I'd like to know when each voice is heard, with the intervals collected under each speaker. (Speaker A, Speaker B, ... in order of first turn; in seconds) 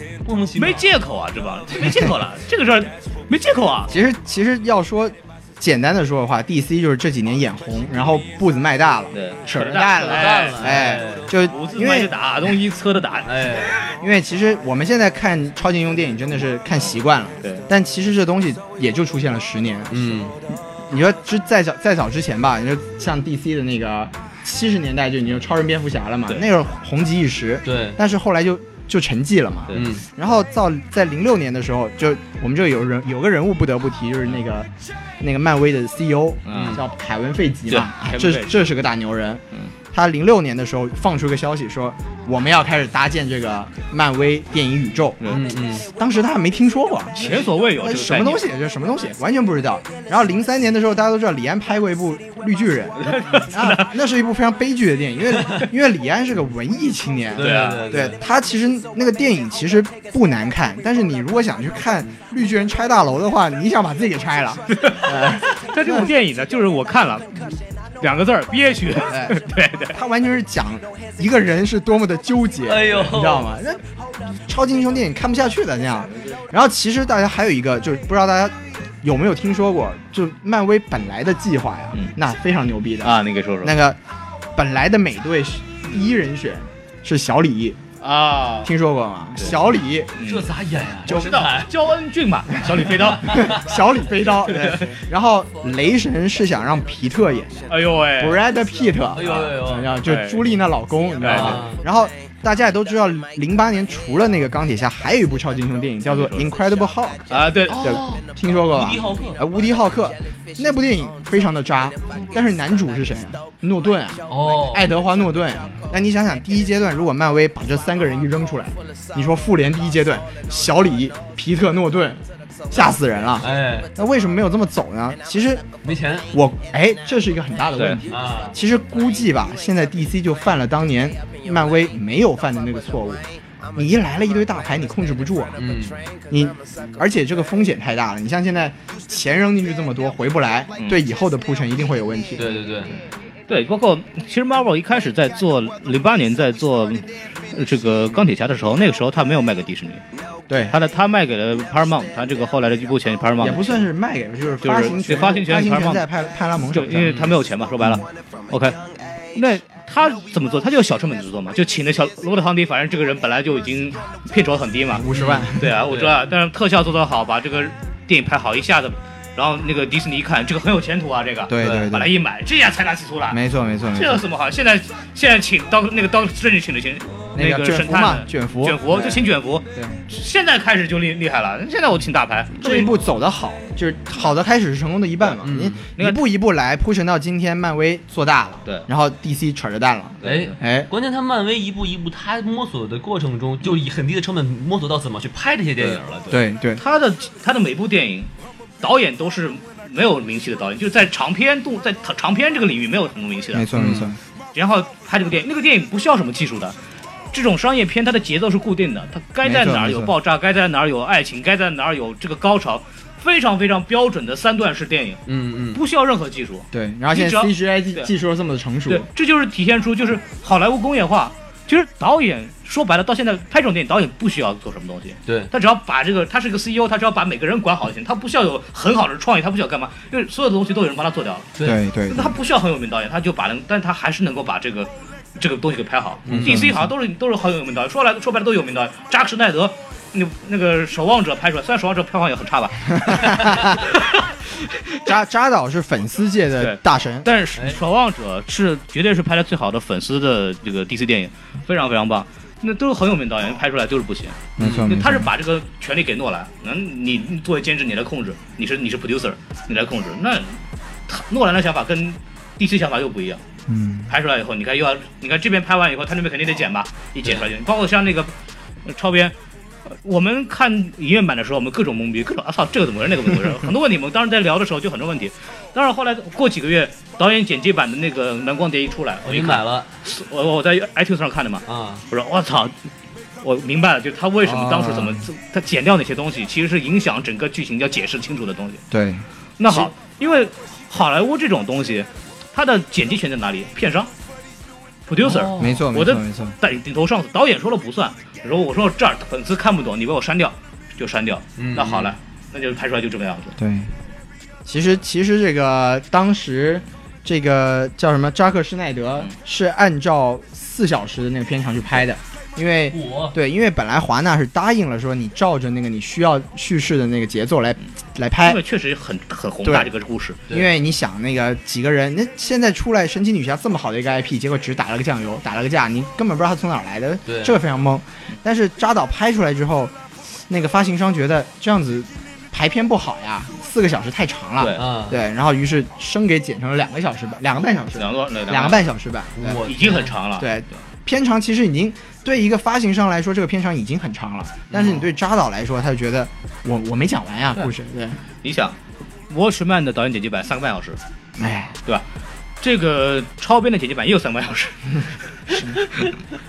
Speaker A: 0.2-0.8, 10.0-11.3, 13.2-13.8, 19.9-20.4, 27.6-28.0, 29.7-30.1, 36.5-36.8, 45.3-45.9, 57.4-58.2, 72.6-73.5, 90.2-91.7, 93.0-93.6, 99.1-99.9, 101.2-101.8, 107.7-109.4, 114.3-114.9, 123.4-123.9, 125.8-126.3, 128.1-128.6, 135.6-136.0, 142.4-142.9, 157.0-157.4, 165.1-166.2, 171.6-171.9, 185.4-185.8, 190.2-196.4, 203.7-204.1, 215.3-215.8, 225.2-225.5, 236.2-236.8, 247.5-247.8, 254.6-255.0, 279.2-279.9, 281.6-282.0, 295.2-295.9, 301.6-302.1, 312.9-313.4, 327.2-327.6, 334.8-335.2, 339.4-340.1
Speaker B: 0.5-3.9, 9.1-10.8, 11.3-13.6, 16.8-17.6, 36.5-36.8, 37.7-38.6, 47.2-48.5, 53.0-53.9, 57.3-57.9, 64.7-70.0, 83.0-83.8, 88.0-88.7, 90.2-90.5, 91.0-93.6, 94.3-94.9, 97.7-98.4, 100.0-100.5, 101.2-101.6, 106.1-106.5, 107.3-108.0, 127.8-128.0, 143.5-150.0, 150.7-153.8, 154.6-156.1, 156.7-158.8, 159.3-173.4, 173.9-182.9, 185.9-186.2, 190.2-190.5, 196.8-198.3, 198.8-203.7, 204.5-206.8, 207.3-215.2, 215.7-218.1, 218.9-231.6, 232.1-245.1, 246.6-263.4, 264.1-268.3, 268.8-269.3, 269.9-282.8, 283.4-288.8, 289.6-294.1, 295.1-303.5, 318.4-320.4, 334.6-334.8, 338.0-338.8, 339.6-340.5, 348.4-348.8, 349.3-351.0, 352.6-356.1
Speaker C: 3.9-12.1, 13.9-66.1, 69.1-84.0, 84.5-87.8, 88.6-90.1, 93.3-97.6, 98.2-107.3, 107.8-125.6, 126.3-133.2, 133.7-135.6, 136.3-142.5, 150.5-150.8, 153.4-157.2, 164.9-165.8, 171.5-172.1, 173.3-174.2, 177.3-180.1, 182.6-190.9, 196.3-196.8, 203.5-204.2, 209.4-210.1, 216.7-219.1, 231.6-232.4, 236.3-236.9, 242.9-243.9, 244.9-247.3, 254.6-255.3, 263.7-264.1, 284.4-285.3, 288.9-289.9, 295.6-296.6, 303.6-303.9, 304.6-318.6, 319.6-319.9, 320.5-329.9, 330.5-339.6, 340.4-348.2, 351.4-351.8